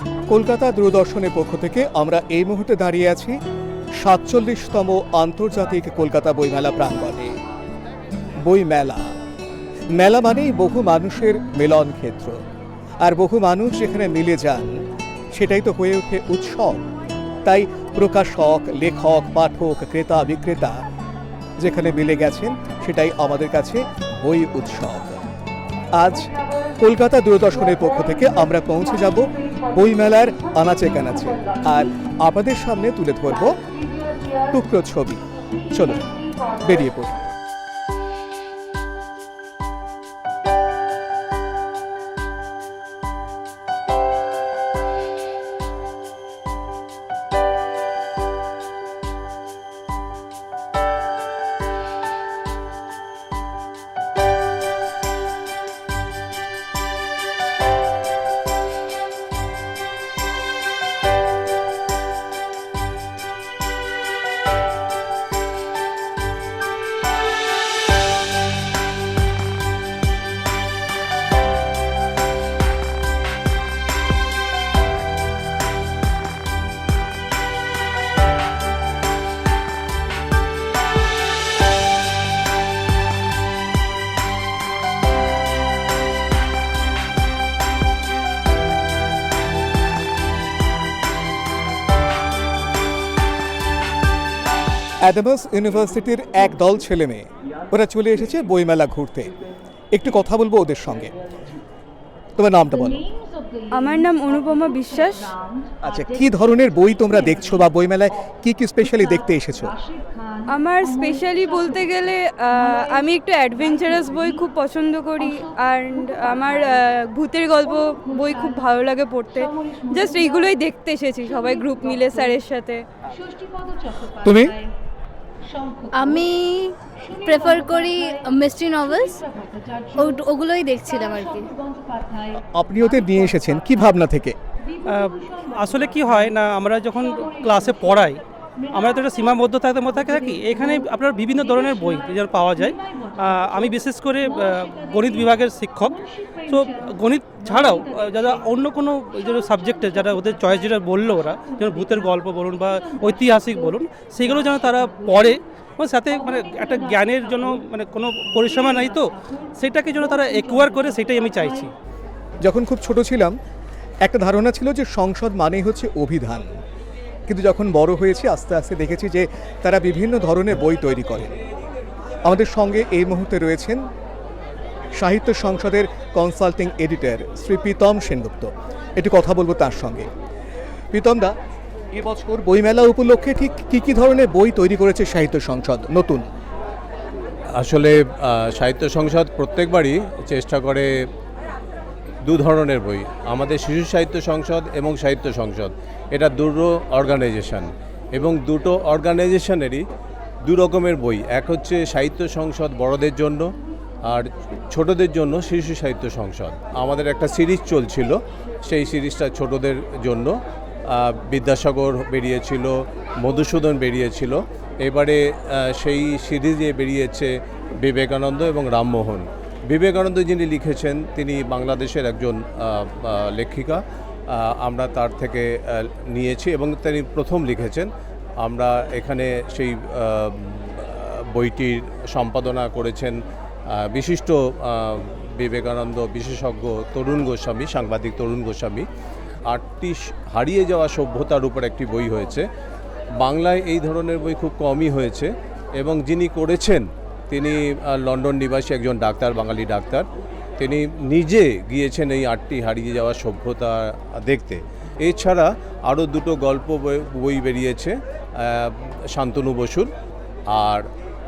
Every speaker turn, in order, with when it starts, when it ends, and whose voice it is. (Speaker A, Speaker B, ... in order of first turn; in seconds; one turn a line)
Speaker A: 0.3-3.4
Speaker A: 4.0-7.3
Speaker A: 8.4-9.2
Speaker A: 9.9-12.4
Speaker A: 13.0-14.8
Speaker A: 15.3-16.8
Speaker A: 17.4-20.7
Speaker A: 21.6-25.2
Speaker A: 25.9-33.6
Speaker A: 34.5-36.0
Speaker A: 36.6-37.2
Speaker A: 95.0-99.3
Speaker A: 99.9-101.1
Speaker A: 102.4-103.0
Speaker B: 103.7-105.3
Speaker A: 105.8-109.7
Speaker B: 110.5-122.8
Speaker A: 124.2-124.6
Speaker C: 125.9-129.2
Speaker C: 129.9-131.5
Speaker A: 132.3-134.4
Speaker D: 134.9-138.2
Speaker D: 138.7-161.7
Speaker A: 162.4-163.3
Speaker A: 164.0-166.5
Speaker A: 167.3-171.4
Speaker A: 172.2-173.8
Speaker A: 174.9-180.1
Speaker A: 180.9-181.3
Speaker A: 181.9-186.3
Speaker E: 187.5-191.1
Speaker E: 192.2-199.8
Speaker E: 200.4-203.5
Speaker E: 204.1-227.9
Speaker E: 228.4-233.2
Speaker E: 233.7-238.9
Speaker E: 239.5-242.5
Speaker E: 243.2-250.1
Speaker E: 250.6-259.9
Speaker E: 260.5-260.9